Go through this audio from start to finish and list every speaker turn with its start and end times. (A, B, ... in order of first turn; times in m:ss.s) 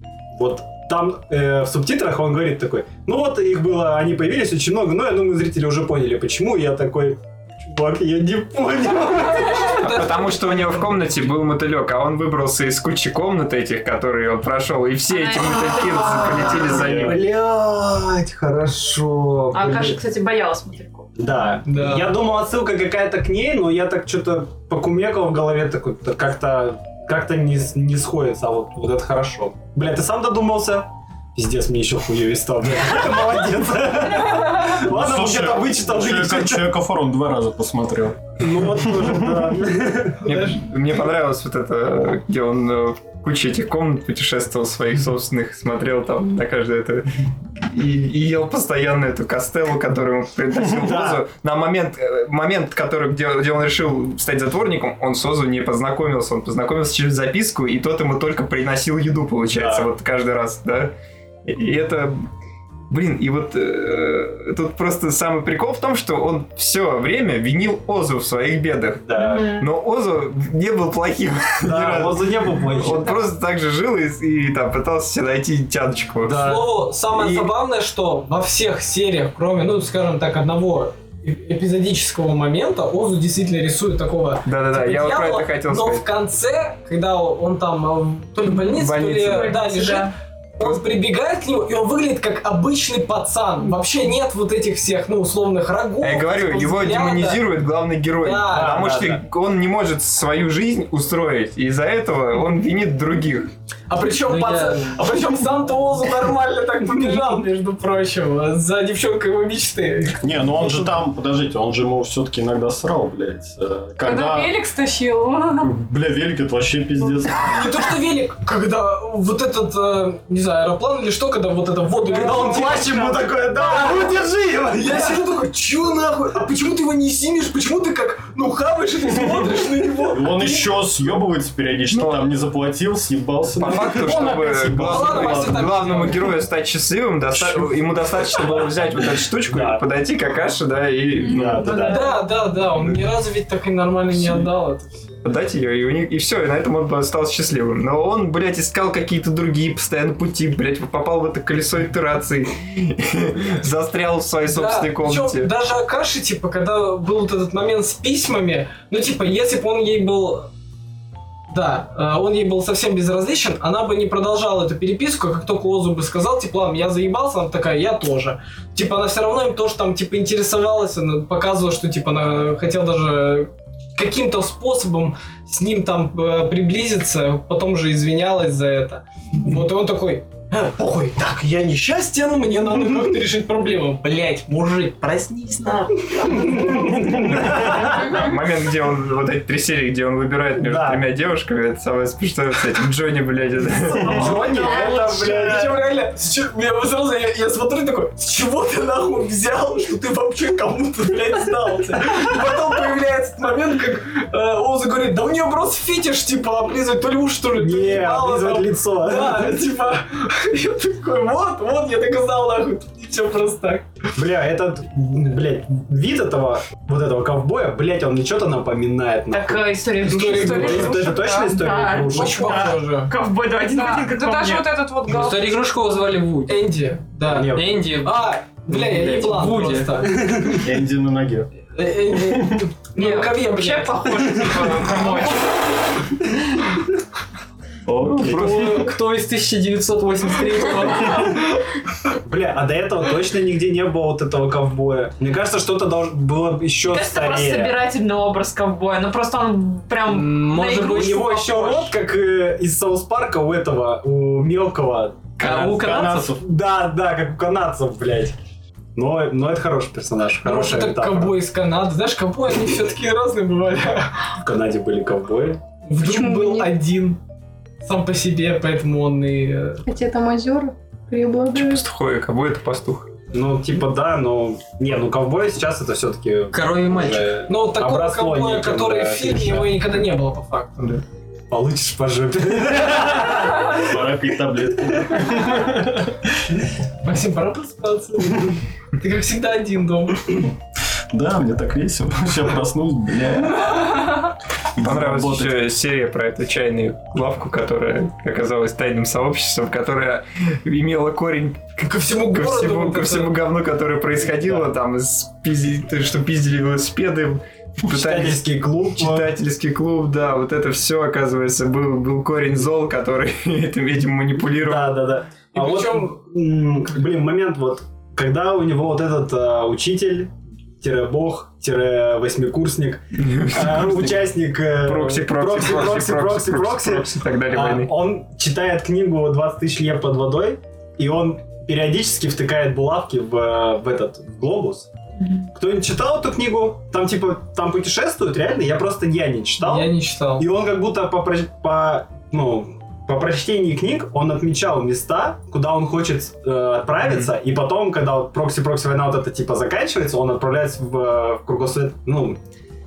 0:00.3-0:09.8 A
0:09.0-0:11.0 B
0:09.7-0:17.3 C
0:15.1-0:16.6 D
0:16.6-0:20.0 A
0:16.8-0:17.1 E
0:19.5-0:21.1 D
0:21.2-0:36.7 A
0:21.6-0:22.1 B
0:34.6-0:39.6 E
0:38.4-0:40.2 A
0:40.2-0:40.6 B
0:40.3-0:47.1 C
0:47.6-1:00.9 C
0:50.7-0:51.2 A
0:59.5-0:59.9 A
1:01.4-1:02.3 C
1:02.9-1:16.5 C
1:09.0-1:09.5 A
1:09.2-1:09.6 D
1:11.6-1:13.2 A
1:16.2-1:17.5 A
1:16.4-1:37.4 B
1:24.4-1:26.0 C
1:28.7-1:29.6 C
1:29.4-1:30.1 D
1:36.0-1:43.5 C
1:38.2-1:38.8 B
1:38.5-1:39.2 A
1:43.9-1:50.3 B
1:44.2-1:45.0 F
1:50.2-1:54.6 E
1:54.0-1:55.7 G
1:55.6-1:57.7 E
1:57.4-2:04.2 B
2:02.1-2:05.3 A
2:02.1-2:03.1 G
2:04.7-2:10.7 B
2:09.3-2:16.0 E
2:13.6-2:21.8 C
2:14.8-2:16.2 B
2:19.5-2:19.8 A
2:21.3-2:22.0 A
2:21.6-2:22.2 G
2:21.9-2:25.1 B
2:25.2-2:35.5 C
2:34.5-2:40.5 B
2:41.5-3:05.4 B
3:06.2-3:06.6 D
3:06.4-3:06.7 B
3:06.6-3:08.3 A
3:07.2-3:14.5 C
3:10.6-3:11.0 A
3:13.9-3:15.7 A
3:14.0-3:33.8 B
3:27.5-3:29.5 A
3:34.2-3:39.6 A
3:39.3-3:44.7 D
3:40.0-3:40.9 B
3:40.1-3:41.8 G
3:40.3-3:42.7 A
3:42.1-3:43.1 B
3:43.7-3:45.6 G
3:45.1-3:46.7 F
3:46.5-3:50.2 B
3:47.3-3:47.9 A
3:47.5-3:50.1 F
3:50.1-3:50.6 A
3:50.6-3:51.5 E
3:51.7-3:54.8 B
3:52.1-3:52.6 E
3:53.0-3:53.8 F
3:53.0-3:55.4 D
3:54.9-3:55.2 F
3:57.8-3:58.9 E
3:58.0-3:58.9 C
3:58.2-4:01.4 F
4:02.2-4:07.7 A
4:06.8-4:11.4 D
4:10.0-4:11.8 F
4:10.8-4:15.4 A
4:15.4-4:16.3 F
4:15.4-4:16.4 E
4:16.4-4:18.4 A
4:19.0-4:21.4 A
4:20.4-4:24.2 B
4:24.4-4:25.6 A
4:25.8-4:27.2 B
4:26.0-4:26.7 H
4:27.8-4:29.8 B
4:29.8-4:31.8 H
4:31.5-4:33.1 C
4:33.3-4:39.8 A
4:36.5-4:37.3 F
4:37.5-4:40.8 B
4:40.8-4:41.0 C
4:41.5-4:44.0 A
4:43.6-4:46.2 E
4:45.0-4:45.4 A
4:47.0-4:50.5 B
4:51.1-4:54.0 E
4:54.7-4:55.6 E
4:54.8-5:01.6 C
5:01.8-5:03.4 B
5:02.3-5:15.0 C
5:04.2-5:04.7 A
5:07.8-5:09.3 A
5:14.6-5:34.9 A
5:15.5-5:16.1 B
5:23.1-5:27.9 C
5:35.6-5:52.4 A
5:39.6-5:40.4 B
5:47.0-5:47.3 C